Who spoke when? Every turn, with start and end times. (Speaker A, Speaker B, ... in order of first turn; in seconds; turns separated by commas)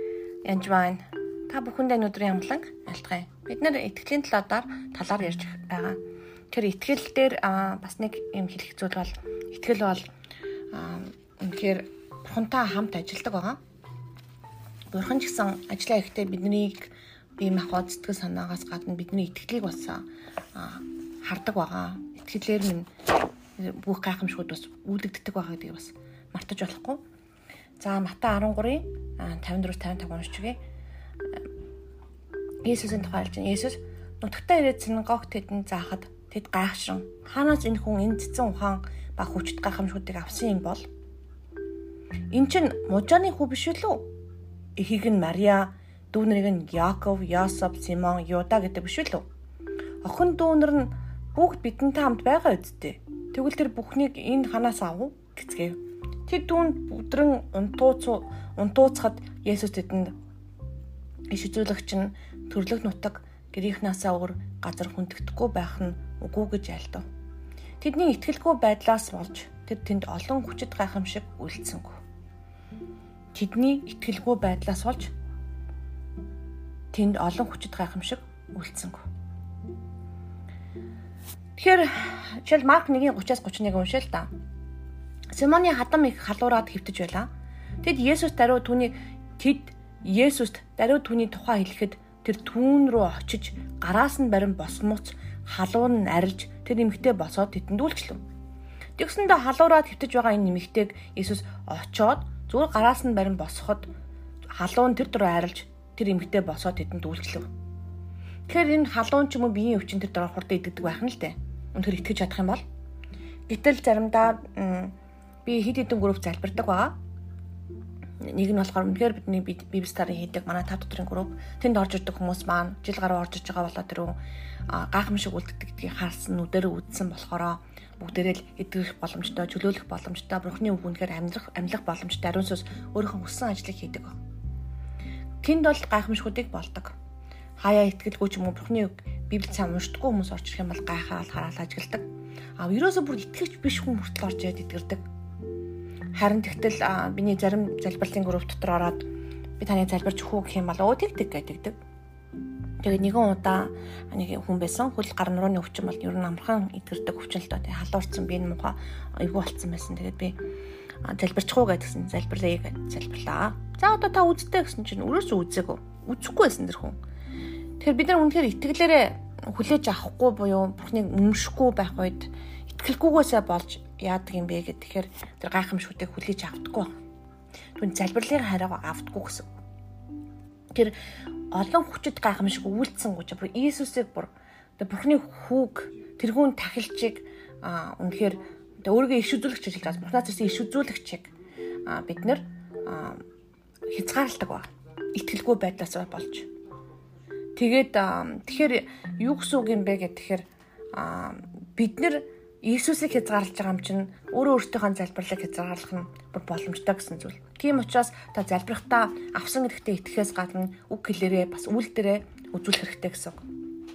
Speaker A: 0.4-6.0, Speaker A: 6.5-10.1, Speaker A: 10.7-13.6, Speaker A: 14.9-20.0, Speaker A: 20.5-22.9, Speaker A: 23.6-27.0, Speaker A: 27.8-30.6, Speaker A: 32.6-40.9, Speaker A: 42.3-44.1, Speaker A: 44.8-49.2, Speaker A: 50.0-60.1, Speaker A: 61.3-67.0, Speaker A: 67.8-72.0, Speaker A: 73.3-75.1, Speaker A: 76.9-79.0, Speaker A: 81.6-84.3, Speaker A: 85.3-87.3, Speaker A: 87.8-98.2, Speaker A: 99.0-103.9, Speaker A: 104.5-107.5, Speaker A: 108.5-112.6, Speaker A: 113.5-114.9, Speaker A: 115.4-117.0, Speaker A: 118.2-124.2, Speaker A: 124.7-134.2, Speaker A: 135.4-136.9, Speaker A: 137.6-142.0, Speaker A: 142.6-145.0, Speaker A: 146.1-149.1, Speaker A: 149.6-151.8, Speaker A: 152.8-160.4, Speaker A: 161.0-167.0, Speaker A: 167.8-176.9, Speaker A: 177.8-179.5, Speaker A: 181.5-191.3, Speaker A: 191.8-193.2, Speaker A: 193.9-196.5, Speaker A: 197.5-213.4